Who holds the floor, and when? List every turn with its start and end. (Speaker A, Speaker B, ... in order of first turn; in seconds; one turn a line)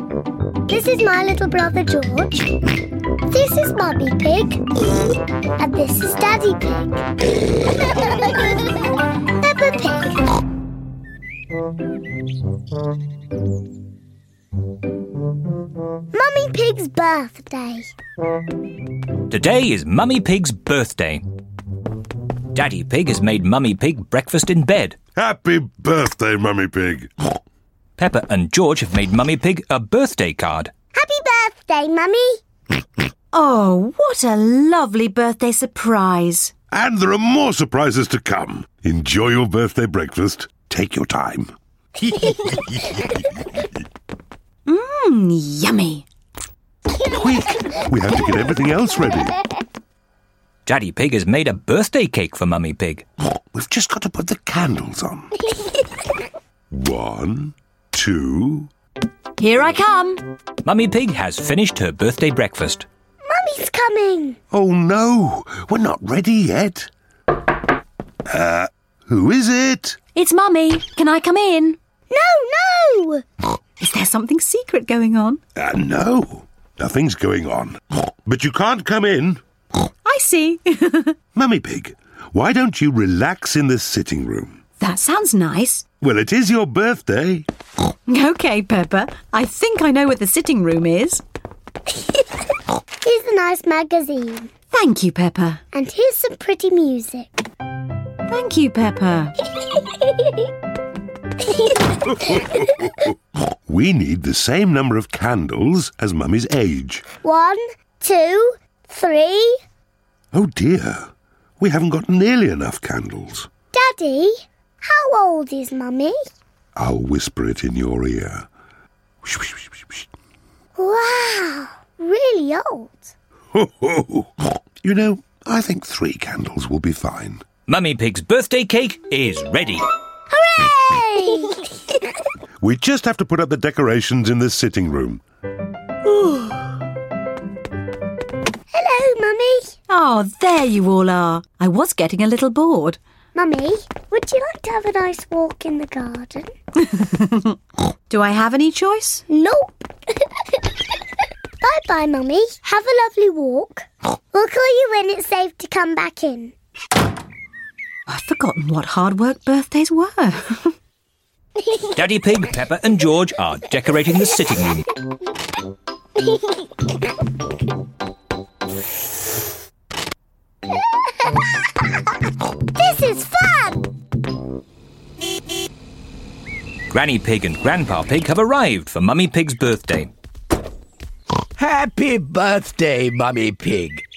Speaker A: 0.7-2.6
Speaker A: 3.3-4.7
Speaker A: 5.5-7.1
Speaker A: 7.9-8.5
Speaker A: 9.4-10.2
Speaker A: 16.1-17.9
Speaker B: 19.3-21.2
Speaker B: 22.5-24.9
Speaker C: 25.1-27.1
Speaker B: 28.0-30.7
Speaker A: 30.9-32.4
Speaker D: 33.3-36.5
Speaker C: 36.7-41.5
Speaker D: 44.7-46.0
Speaker C: 47.0-49.3
Speaker B: 50.6-53.0
Speaker C: 53.5-55.4
Speaker C: 56.7-58.7
Speaker D: 59.4-60.2
Speaker B: 60.6-62.9
Speaker A: 63.2-64.4
Speaker C: 64.5-66.9
Speaker C: 68.3-70.0
Speaker D: 70.1-71.8
Speaker A: 72.1-73.2
Speaker D: 73.8-75.4
Speaker C: 75.5-79.4
Speaker D: 80.0-81.2
Speaker C: 81.3-84.6
Speaker D: 84.8-85.8
Speaker C: 86.0-87.5
Speaker D: 88.1-91.2
Speaker A: 93.0-94.5
Speaker D: 94.7-95.6
Speaker A: 95.7-97.3
Speaker D: 98.3-99.3
Speaker A: 101.5-101.8
Speaker C: 103.7-107.0
Speaker A: 107.2-109.6
Speaker C: 110.3-113.5
Speaker A: 113.7-116.2
Speaker C: 116.8-118.5
Speaker C: 119.2-119.8
Speaker A: 120.8-123.1
Speaker C: 123.5-127.4
Speaker B: 127.7-129.8
Speaker A: 130.3-131.6
Speaker C: 132.6-135.2
Speaker A: 138.7-139.8
Speaker D: 139.9-143.0
Speaker A: 143.3-146.5
Speaker D: 146.8-147.5
Speaker D: 148.1-149.2
Speaker A: 149.3-149.9
Speaker A: 151.6-156.5
Speaker D: 158.1-160.7
Speaker B: 161.8-164.8
Speaker A: 172.7-173.8
Speaker B: 176.9-180.1
Speaker E: 181.6-184.0